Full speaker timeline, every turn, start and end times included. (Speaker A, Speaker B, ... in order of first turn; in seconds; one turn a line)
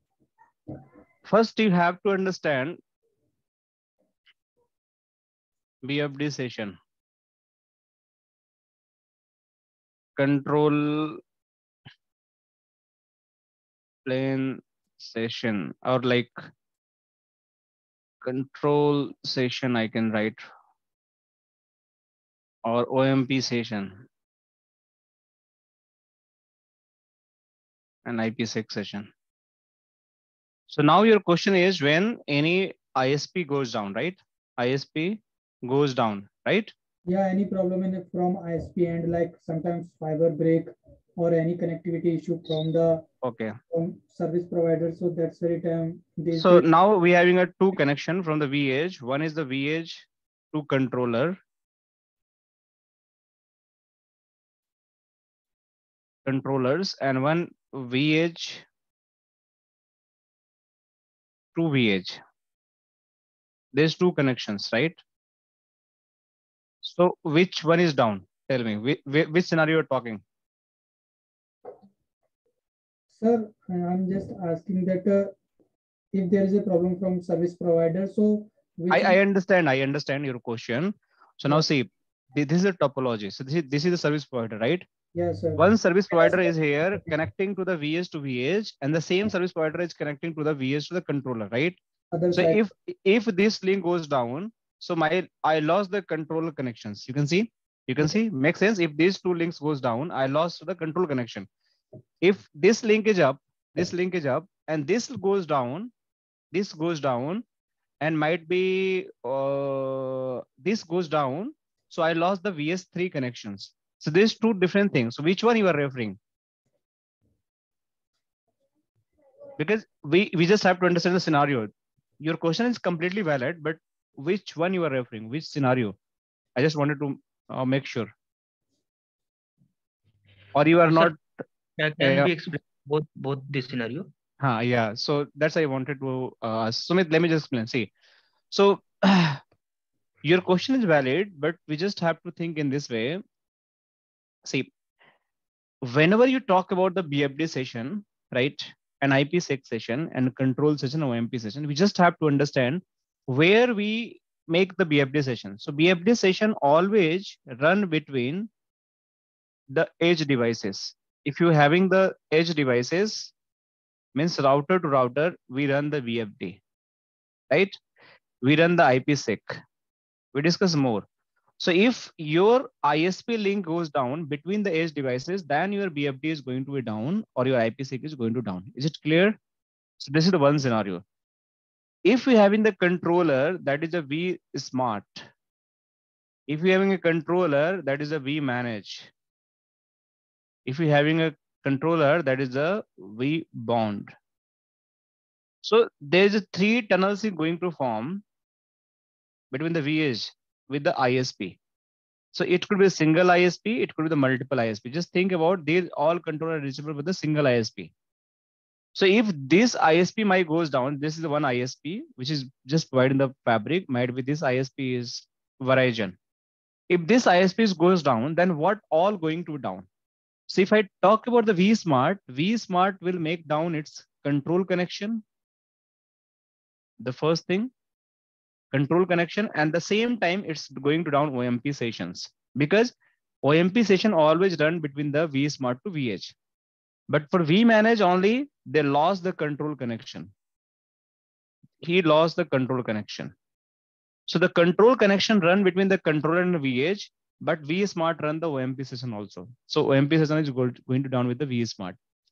Speaker A: 1.3-2.8
Speaker A: 5.8-6.8
Speaker A: 10.2-11.2
Speaker A: 14.1-16.4
Speaker A: 18.2-20.4
Speaker A: 22.6-24.0
Speaker A: 28.1-29.1
Speaker A: 30.7-36.7
Speaker B: 37.1-43.0
Speaker A: 43.2-43.6
Speaker B: 43.7-46.7
Speaker A: 46.3-51.4
Speaker A: 56.2-58.6
Speaker A: 61.5-62.2
Speaker A: 63.7-65.0
Speaker A: 66.8-70.2
Speaker B: 73.1-75.3
Speaker B: 76.1-79.2
Speaker A: 78.9-84.8
Speaker B: 85.1-86.5
Speaker A: 85.6-91.8
Speaker B: 92.1-92.6
Speaker A: 92.3-101.5
Speaker A: 102.2-105.9
Speaker A: 106.5-107.4
Speaker A: 108.0-116.2
Speaker A: 119.6-126.0
Speaker A: 126.6-128.1
Speaker A: 130.5-131.2
Speaker C: 130.9-131.2
Speaker C: 131.8-134.1
Speaker A: 132.0-132.3
Speaker A: 134.4-137.9
Speaker A: 138.5-139.4
Speaker A: 140.2-143.2
Speaker A: 145.8-158.5
Speaker A: 159.7-163.3
Speaker A: 164.1-166.6
Speaker A: 167.5-167.8
Speaker A: 168.4-169.6
Speaker A: 170.3-171.0
Speaker A: 171.6-179.3
Speaker A: 180.0-181.0
Speaker A: 182.0-185.3
Speaker A: 186.5-189.1
Speaker A: 190.7-194.1
Speaker A: 195.6-198.2
Speaker A: 199.5-201.6
Speaker A: 202.3-207.9
Speaker A: 208.9-216.2
Speaker A: 216.9-219.8
Speaker A: 220.5-225.2
Speaker A: 227.0-227.7
Speaker A: 228.7-232.9
Speaker A: 233.4-236.3
Speaker A: 237.1-240.3
Speaker A: 241.8-243.3
Speaker A: 244.3-251.9